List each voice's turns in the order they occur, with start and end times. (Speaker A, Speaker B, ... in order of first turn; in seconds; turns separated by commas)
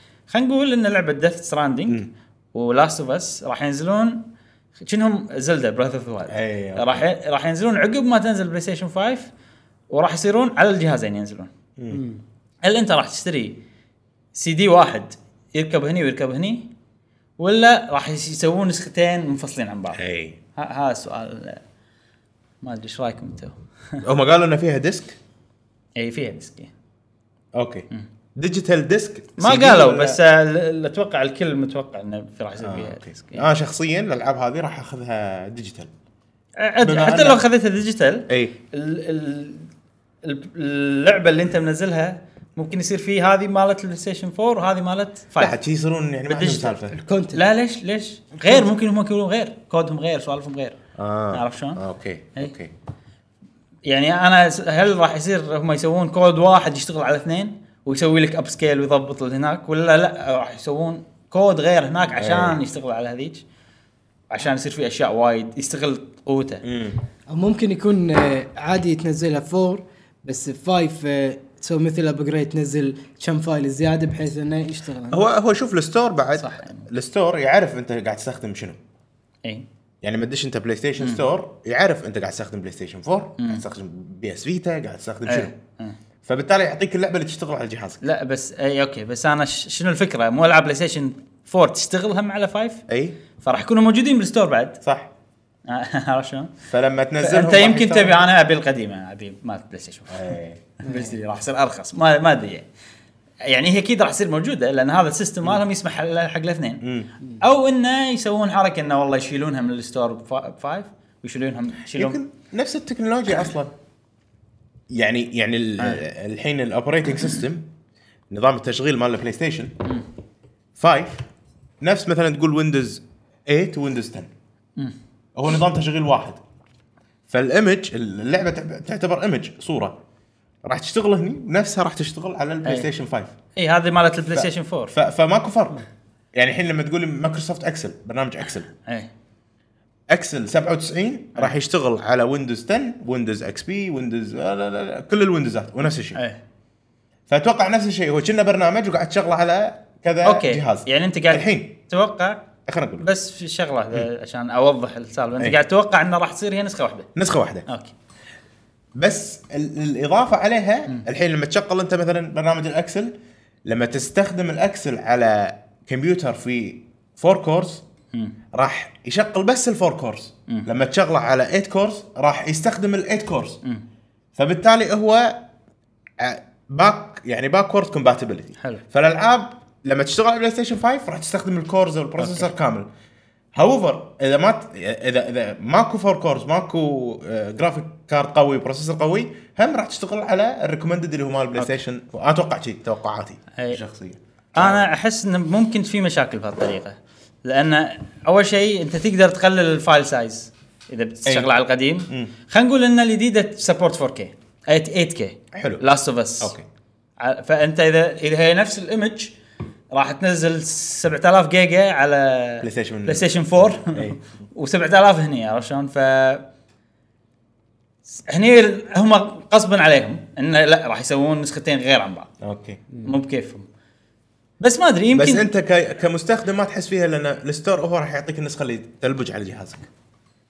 Speaker A: 0.3-2.0, Speaker A: 2.5-4.2, Speaker A: 4.8-9.3, Speaker B: 6.3-7.0, Speaker A: 9.9-11.5, Speaker C: 11.9-12.2, Speaker A: 12.6-13.6, Speaker A: 14.3-16.7, Speaker A: 17.4-20.0, Speaker B: 19.9-20.4, Speaker A: 20.6-21.6, Speaker A: 22.6-24.0, Speaker B: 24.0-25.2, Speaker A: 26.0-26.7, Speaker B: 27.5-30.2, Speaker A: 29.4-33.5, Speaker B: 32.6-35.9, Speaker A: 36.6-39.7, Speaker B: 36.8-37.5, Speaker B: 38.3-38.5, Speaker A: 40.2-45.6, Speaker B: 45.4-47.0, Speaker A: 46.3-46.7, Speaker C: 46.9-47.4, Speaker A: 47.3-50.8, Speaker B: 51.0-52.7, Speaker A: 51.3-51.8, Speaker A: 53.9-63.4, Speaker B: 62.2-62.6, Speaker A: 64.3-66.7, Speaker B: 66.6-67.0, Speaker C: 67.3-75.2, Speaker B: 75.1-78.8, Speaker A: 76.4-76.9, Speaker B: 80.0-85.5, Speaker A: 83.4-83.6, Speaker A: 85.3-86.0, Speaker B: 86.3-88.0, Speaker A: 88.0-92.8, Speaker B: 92.9-93.2, Speaker A: 93.4-94.8, Speaker B: 94.8-95.1, Speaker A: 95.7-96.5, Speaker B: 96.7-98.2, Speaker A: 97.2-102.7, Speaker B: 100.1-100.6, Speaker C: 100.9-101.1, Speaker A: 103.4-106.8, Speaker B: 106.8-107.1, Speaker A: 107.4-112.2, Speaker B: 111.9-113.7, Speaker B: 114.9-117.7, Speaker B: 118.3-119.8, Speaker B: 120.8-121.3, Speaker B: 121.8-124.3, Speaker B: 125.3-126.4, Speaker B: 127.3-130.0, Speaker B: 130.6-133.3, Speaker A: 133.6-134.9, Speaker B: 134.3-135.8, Speaker B: 136.3-138.7, Speaker B: 140.1-146.2, Speaker B: 147.3-151.8, Speaker A: 150.2-152.4, Speaker B: 152.7-153.1, Speaker A: 153.0-157.1, Speaker B: 157.2-157.7, Speaker A: 157.7-157.9, Speaker B: 159.0-163.1, Speaker B: 163.7-167.8, Speaker B: 168.5-173.6, Speaker B: 174.4-175.4, Speaker B: 176.2-182.9, Speaker A: 182.2-182.5, Speaker B: 183.6-194.9, Speaker A: 194.6-206.5, Speaker B: 201.3-201.5, Speaker B: 205.5-205.8, Speaker B: 206.4-206.7, Speaker A: 207.2-209.4, Speaker A: 209.9-216.5, Speaker B: 212.6-214.2, Speaker A: 218.2-222.3, Speaker B: 222.4-222.8, Speaker A: 223.0-223.7, Speaker A: 224.6-225.5, Speaker B: 225.1-229.9